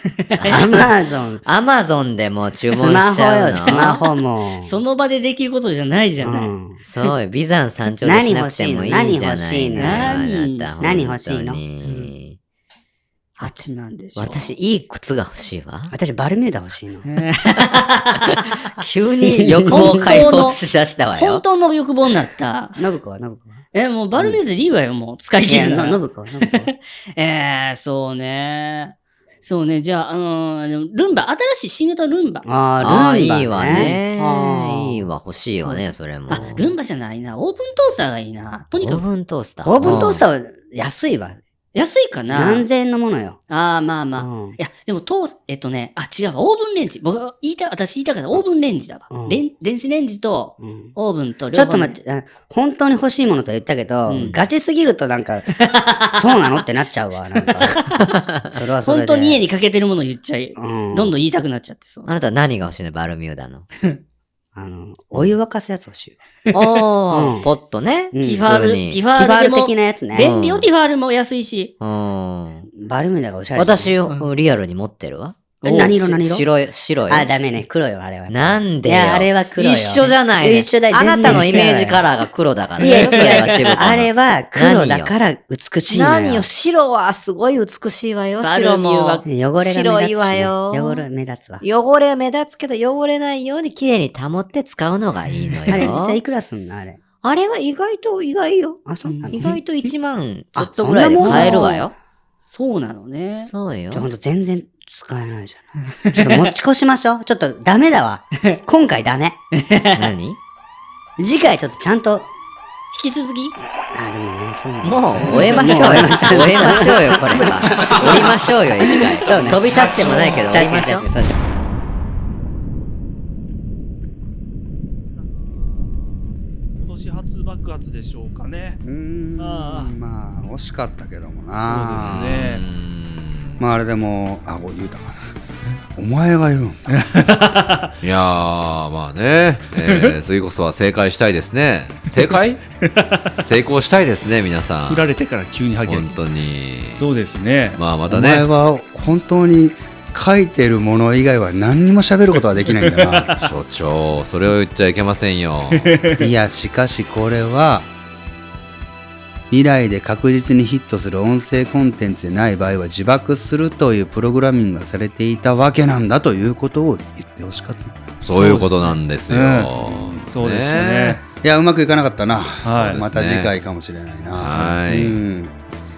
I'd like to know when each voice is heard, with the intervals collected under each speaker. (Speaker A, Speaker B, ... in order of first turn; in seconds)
Speaker A: 0.2-0.6, 3.7-6.5, 9.8-10.8, 11.8-12.1, 13.4-14.5, 17.1-18.3, 19.7-20.6, 21.1-22.8, 23.7-32.5, 33.7-34.0, 36.3-39.0, 39.8-40.2, 41.7-42.7, 43.5-52.0, 54.1-54.4, 55.5-56.4, 58.9-62.1, 68.2-71.7, 82.8-83.7, 88.4-89.3, 95.5-95.9, 99.1-99.6, 101.2-101.9, 102.5-103.5, 106.0-106.5, 109.5-110.0, 112.9-113.6, 115.3-117.1, 117.9-118.3
Speaker B: 0.4-0.7, 1.4-4.0, 6.8-12.4, 14.2-15.9, 18.1-21.4, 32.8-36.7, 38.8-40.2, 54.1-54.4, 58.1-58.5, 62.1-63.6, 66.5-69.0, 70.2-70.7, 71.8-72.7, 73.6-77.3, 78.3-85.1, 85.9-91.0, 91.6-96.2, 97.2-101.9, 103.4-104.1, 109.9-110.4, 114.8-121.1
Speaker C: 0.5-1.4, 2.8-4.8, 6.2-6.8, 8.0-10.2, 10.8-11.6, 15.9-17.1, 19.2-20.3, 22.8-23.6, 25.5-26.7, 32.5-35.1, 35.7-36.5, 39.6-41.4, 42.3-43.4, 44.2-44.6, 49.1-49.4, 50.6-50.9, 51.5-57.8, 58.5-59.4, 60.6-61.1, 64.6-66.2, 67.1-67.5, 68.1-68.5, 69.1-70.3, 72.8-74.0, 75.6-76.5, 77.1-82.0, 82.8-86.5, 89.2-91.6, 95.7-97.0, 98.9-99.5, 100.6-101.8, 103.9-109.4, 111.2-112.3, 113.9-121.4
Speaker D: 125.2-126.0, 126.8-128.8, 129.4-129.9, 131.6-132.6, 136.9-137.9, 142.9-143.2, 144.8-146.2, 146.9-147.8, 152.8-153.4, 155.7-156.2, 168.3-171.2, 172.7-173.0
Speaker E: 128.8-132.5, 133.6-135.3, 136.0-137.3, 148.1-153.3, 156.2-157.9, 159.5-168.2, 171.4-175.5
Speaker F: 132.0-133.6, 138.0-142.6, 143.4-145.1, 145.8-147.1, 147.8-148.5, 153.4-156.0, 168.2-171.2, 172.7-173.5, 174.4-175.2